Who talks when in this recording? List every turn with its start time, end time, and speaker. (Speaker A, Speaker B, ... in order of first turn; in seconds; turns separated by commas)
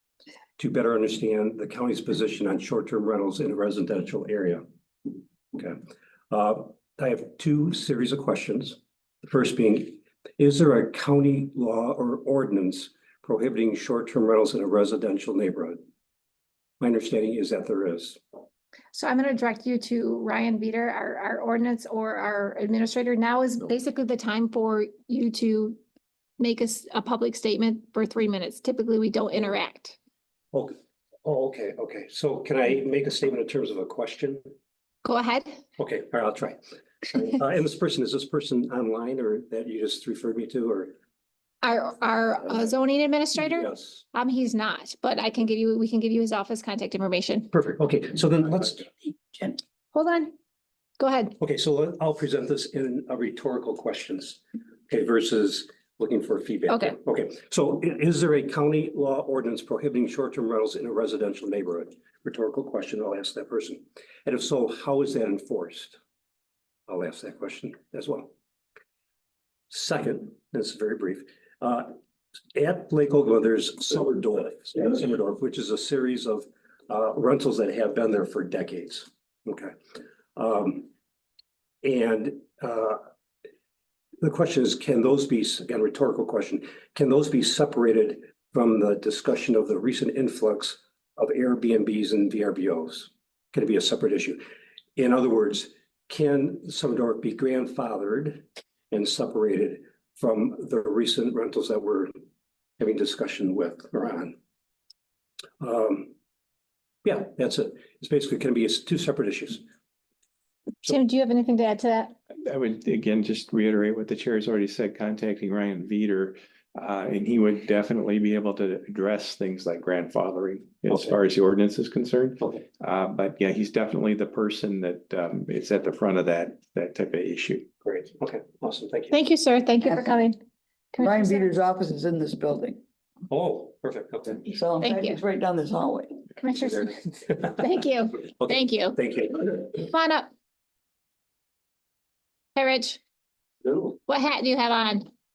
Speaker A: 0.6-15.8, Speaker A: 16.8-18.2, Speaker B: 18.9-25.8, Speaker B: 26.4-30.0, Speaker A: 30.5-34.4, Speaker B: 35.0-35.6, Speaker A: 35.8-41.0, Speaker B: 41.6-47.5, Speaker A: 43.5-44.0, Speaker A: 47.5-48.8, Speaker C: 49.2-49.5, Speaker B: 49.9-50.3, Speaker B: 51.0-51.4, Speaker A: 51.4-66.0, Speaker B: 56.7-57.0, Speaker A: 66.9-68.3, Speaker A: 69.7-72.0, Speaker A: 72.5-79.7, Speaker A: 80.3-80.9, Speaker A: 81.8-83.0, Speaker A: 84.2-94.4, Speaker A: 95.0-102.1, Speaker A: 102.8-104.3, Speaker A: 105.6-106.1, Speaker A: 107.0-109.6, Speaker B: 110.8-112.1, Speaker D: 112.5-127.7, Speaker A: 127.8-129.2, Speaker B: 129.1-130.4, Speaker B: 130.9-131.5, Speaker C: 131.0-132.8, Speaker A: 133.3-134.5, Speaker C: 134.5-136.2, Speaker B: 134.8-135.2, Speaker B: 136.4-139.0, Speaker A: 138.4-139.5, Speaker B: 139.6-140.3, Speaker B: 142.6-143.0, Speaker B: 144.1-145.1